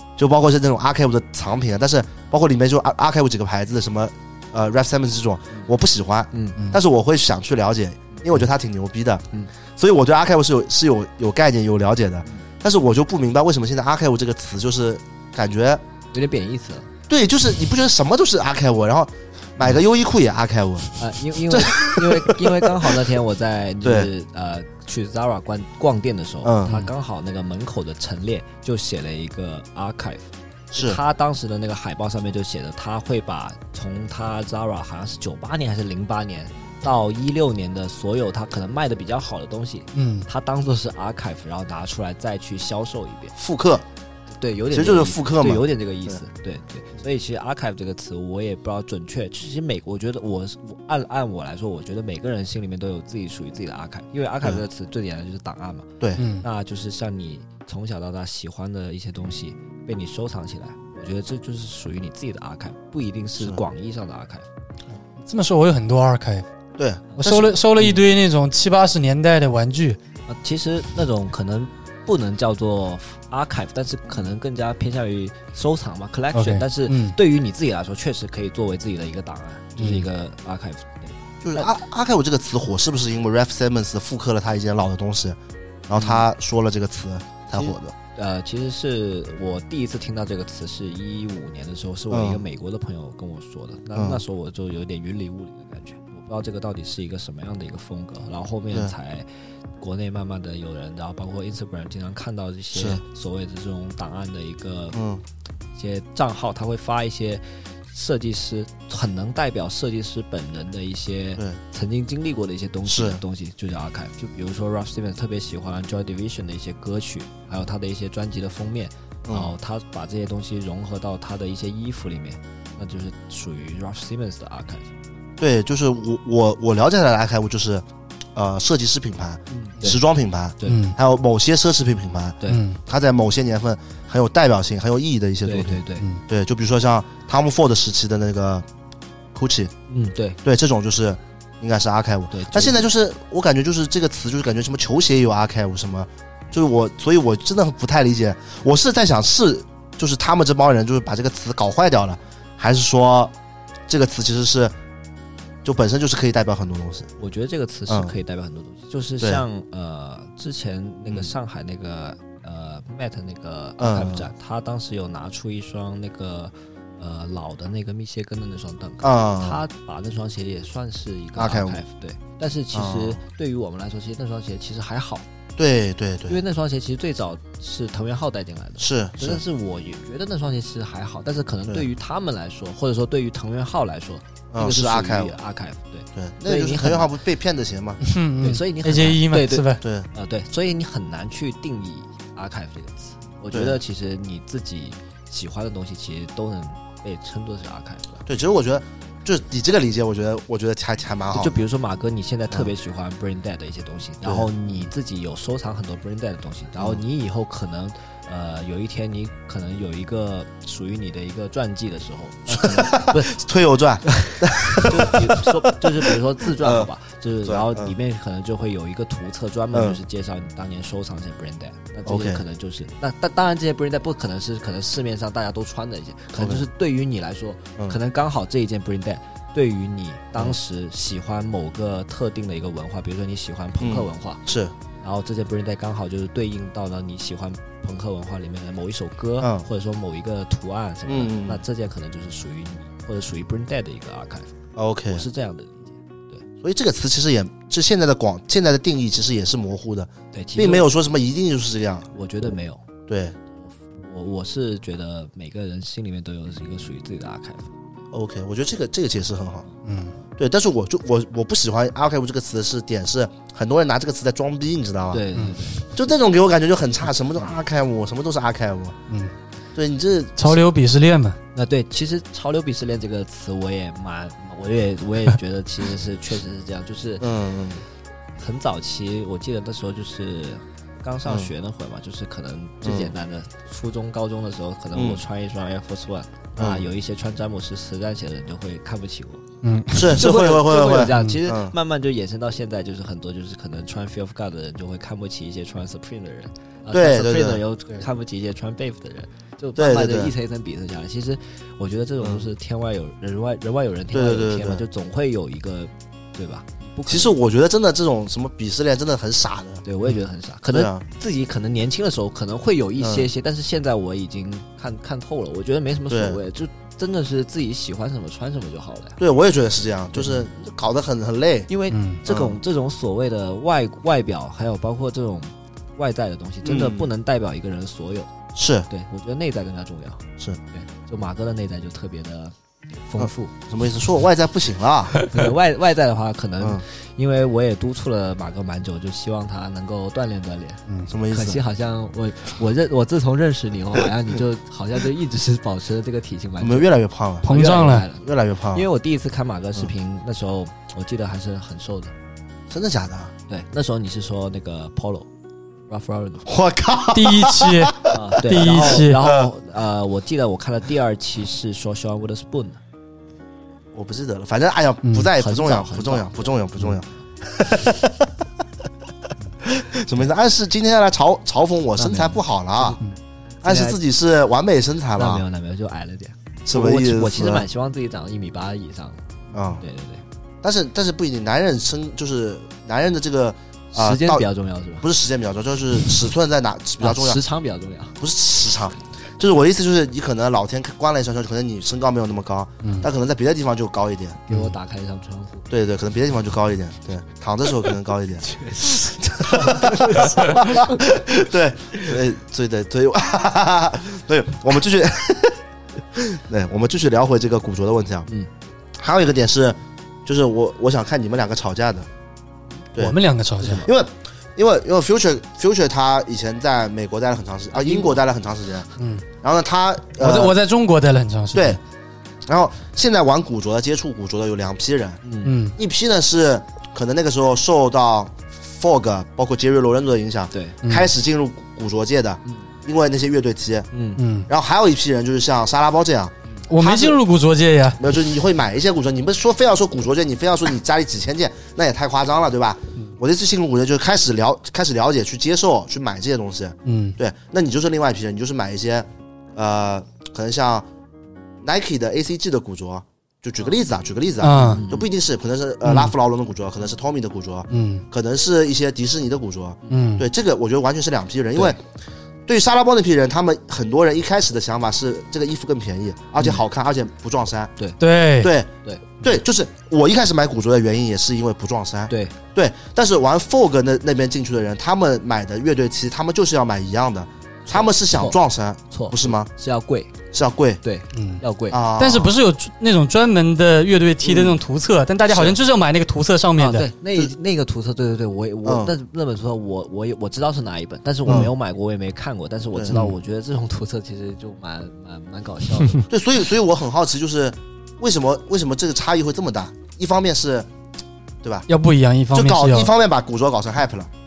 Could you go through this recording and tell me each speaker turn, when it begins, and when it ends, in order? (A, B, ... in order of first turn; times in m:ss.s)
0:00.2-0:15.8 A
0:06.3-0:06.6 B
0:16.1-0:16.9 B
0:17.1-0:20.9 A
0:21.0-0:43.4 B
0:21.5-0:22.9 A
0:23.8-0:24.1 A
0:26.4-0:26.8 A
0:30.7-0:31.0 A
0:39.9-0:40.3 C
0:43.4-0:43.8 A
0:44.4-1:04.5 B
0:44.7-0:46.2 A
0:56.2-0:56.4 C
1:05.2-1:06.4 C
1:06.8-1:07.5 A
1:07.2-1:10.0 C
1:10.3-1:21.7 B
1:16.3-1:17.2 C
1:19.8-1:20.0 C
1:21.4-1:25.4 A
1:25.9-1:27.9 A
1:25.9-1:26.2 B
1:27.5-1:39.3 B
1:32.1-1:32.4 A
1:33.9-1:34.2 A
1:39.8-1:45.0 B
1:42.7-1:43.0 A
1:44.9-1:45.2 A
1:45.8-2:04.9 B
1:52.8-1:53.2 A
1:59.2-1:59.5 A
2:05.4-2:18.6 A
2:09.5-2:10.0 B
2:10.6-2:10.8 B
2:10.6-2:11.0 C
2:12.5-2:12.8 C
2:15.4-2:16.1 B
2:19.3-2:19.7 A
2:19.9-2:20.4 B
2:20.4-2:33.3 A
2:22.3-2:22.9 B
2:33.9-2:34.7 A
2:35.6-2:37.1 A
2:37.2-2:55.2 B
2:37.9-2:38.1 A
2:43.8-2:44.3 A
2:49.0-2:49.6 A
2:51.4-2:51.8 A
2:52.7-2:53.2 A
2:55.6-2:56.4 A
2:56.3-3:07.1 B
2:58.8-2:59.4 A
3:04.5-3:05.3 A
3:06.1-3:08.0 A
3:08.0-3:09.8 C
3:08.4-3:18.2 B
3:09.8-3:10.1 A
3:13.5-3:13.8 A
3:18.2-3:21.6 A
3:21.3-3:33.4 B
3:24.2-3:24.5 A
3:32.5-3:36.9 A
3:34.1-3:54.4 B
3:37.4-3:37.9 A
3:39.7-3:40.0 A
3:42.0-3:42.4 A
3:46.3-3:46.6 A
3:53.8-3:54.7 A
3:55.0-4:04.5 B
3:59.4-3:59.6 A
4:01.1-4:01.6 A
4:04.8-4:05.2 A
4:05.1-4:06.4 B
4:06.6-4:12.1 A
4:10.3-4:10.9 B
4:12.1-4:12.9 B
4:13.1-4:13.4 A
4:13.7-4:17.7 B
4:18.1-4:19.7 A
4:19.8-4:20.1 C
4:20.4-4:25.2 A
4:25.1-4:25.9 B
4:25.3-4:25.6 C
4:25.9-4:29.0 A
4:29.7-4:30.6 A
4:30.4-4:31.4 C
4:31.5-4:37.3 B
4:37.2-4:37.8 A
4:38.4-4:49.4 B
4:42.8-4:43.1 A
4:44.9-4:45.2 A
4:46.6-4:46.8 A
4:49.6-4:50.2 C
4:49.9-4:51.7 A
4:50.1-5:07.4 B
4:51.1-4:51.4 C
4:56.9-4:57.6 A
4:59.8-5:00.3 A
5:02.2-5:02.4 A
5:04.1-5:04.8 A
5:07.1-5:09.8 A
5:09.8-5:19.2 B
5:10.7-5:11.0 A
5:13.0-5:13.3 A
5:16.1-5:16.4 A
5:19.2-5:21.7 A
5:20.2-5:20.4 B
5:21.7-5:28.3 B
5:21.9-5:22.2 C
5:22.3-5:22.6 A
5:26.6-5:27.1 A
5:28.5-5:28.9 A
5:28.9-5:33.5 B
5:33.2-5:35.2 A
5:35.2-5:46.9 B
5:41.1-5:41.6 A
5:46.6-5:47.5 A
5:47.4-5:48.1 C
5:47.4-5:52.1 B
5:48.2-5:48.8 A
5:52.7-5:53.3 A
5:53.5-5:55.3 B
5:55.9-5:56.5 B
5:56.4-5:58.4 A
5:57.1-5:59.2 C
5:58.1-6:02.8 B
6:03.9-6:08.3 A
6:05.0-6:05.3 C
6:05.3-6:06.5 B
6:09.6-6:13.0 A
6:12.0-6:13.0 B
6:13.6-6:14.0 B
6:13.6-6:15.4 A
6:15.2-6:19.2 B
6:16.6-6:17.6 A
6:19.5-6:19.8 A
6:19.8-6:20.2 B
6:20.6-6:24.5 A
6:23.9-6:25.1 B
6:25.0-6:27.4 A
6:27.0-6:28.2 B
6:28.2-6:34.4 A
6:32.8-6:33.1 C
6:34.5-6:35.7 B
6:35.7-6:45.6 A
6:38.5-6:41.0 B
6:46.1-6:48.3 A
6:49.0-6:52.1 A
6:52.9-6:53.9 C
6:52.9-6:58.9 A
6:57.8-6:58.2 B
6:59.0-6:59.2 C
6:59.4-7:00.6 A
7:00.2-7:01.8 C
7:01.5-7:01.8 A
7:02.4-7:05.2 A
7:05.2-7:05.6 B
7:05.4-7:05.7 C
7:05.8-7:13.9 A
7:10.5-7:10.8 B
7:10.8-7:11.1 C
7:13.9-7:14.2 B
7:14.2-7:14.5 C
7:14.5-7:17.2 A
7:16.7-7:18.0 C
7:18.0-7:30.9 A
7:26.8-7:27.2 C
7:31.6-7:41.8 A
7:34.4-7:34.8 C
7:34.6-7:35.1 B
7:35.8-7:36.1 C
7:37.7-7:38.0 C
7:39.9-7:40.3 C
7:42.5-7:47.7 A
7:48.0-7:48.5 C
7:48.4-7:48.7 A
7:48.8-7:49.2 B
7:49.2-7:59.5 A
7:52.1-7:52.3 B
7:57.7-7:58.4 B
7:58.9-8:00.1 B
8:00.3-8:00.8 A
8:00.8-8:01.8 B
8:01.1-8:01.4 C
8:01.7-8:02.3 A
8:02.0-8:06.9 C
8:04.2-8:04.6 A
8:05.3-8:05.6 A
8:06.6-8:16.1 B
8:08.6-8:08.9 A
8:11.2-8:11.5 A
8:12.7-8:13.0 A
8:16.1-8:20.7 A
8:21.7-8:22.9 C
8:22.3-8:24.1 A